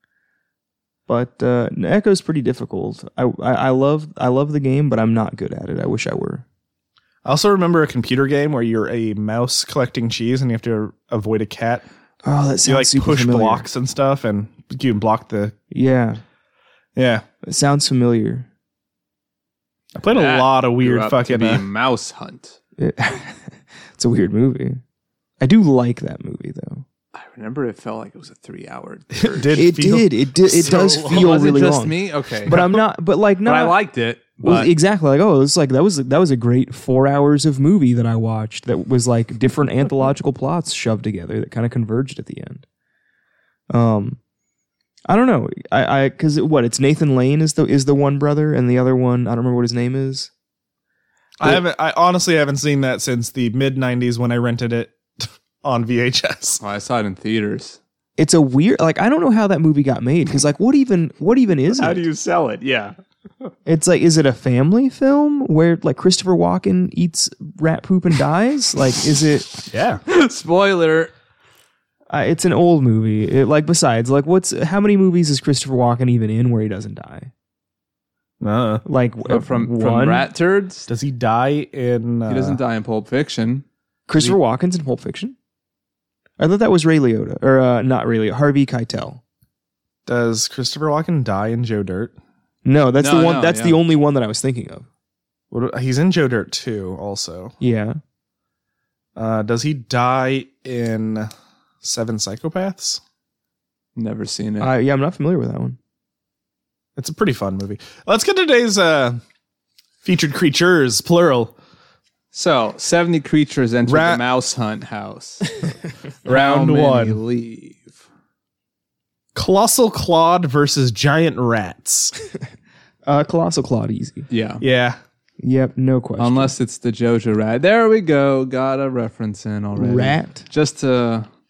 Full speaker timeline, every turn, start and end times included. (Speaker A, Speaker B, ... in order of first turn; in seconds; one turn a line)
Speaker A: 1.1-6.4
Speaker B: 7.2-11.8
Speaker A: 12.2-13.7
Speaker B: 12.6-15.5
Speaker A: 15.7-16.2
Speaker B: 16.9-17.2
Speaker A: 17.4-18.5
Speaker B: 19.9-21.6
Speaker C: 20.1-22.6
Speaker A: 22.8-24.8
Speaker A: 25.4-26.8
Speaker C: 27.1-29.7
Speaker B: 29.1-31.3
Speaker A: 29.5-33.8
Speaker C: 31.0-32.7
Speaker C: 33.4-34.7
Speaker A: 34.4-42.6
Speaker A: 43.7-44.2
Speaker A: 45.1-50.3
Speaker B: 51.4-56.6
Speaker C: 56.6-57.8
Speaker A: 58.2-62.0
Speaker C: 61.8-63.5
Speaker A: 63.6-69.6
Speaker B: 69.7-70.0
Speaker C: 70.1-71.1
Speaker A: 72.1-77.3
Speaker B: 78.4-78.8
Speaker A: 78.8-80.3
Speaker C: 79.3-80.9
Speaker B: 80.9-82.6
Speaker C: 82.3-83.6
Speaker A: 84.1-85.3
Speaker A: 86.4-89.2
Speaker B: 90.0-92.1
Speaker A: 92.6-94.8
Speaker C: 93.0-93.8
Speaker B: 95.5-97.5
Speaker A: 97.6-98.0
Speaker B: 99.2-101.3
Speaker B: 101.8-103.0
Speaker C: 104.0-104.7
Speaker A: 104.6-105.8
Speaker B: 107.0-109.2
Speaker B: 110.0-111.5
Speaker C: 112.3-115.5
Speaker B: 113.8-114.2
Speaker B: 116.2-117.2
Speaker C: 116.2-118.0
Speaker B: 119.3-122.1
Speaker A: 123.0-124.3
Speaker C: 124.3-124.6
Speaker B: 124.6-125.0
Speaker A: 125.4-126.5
Speaker C: 126.2-131.3
Speaker A: 129.8-130.4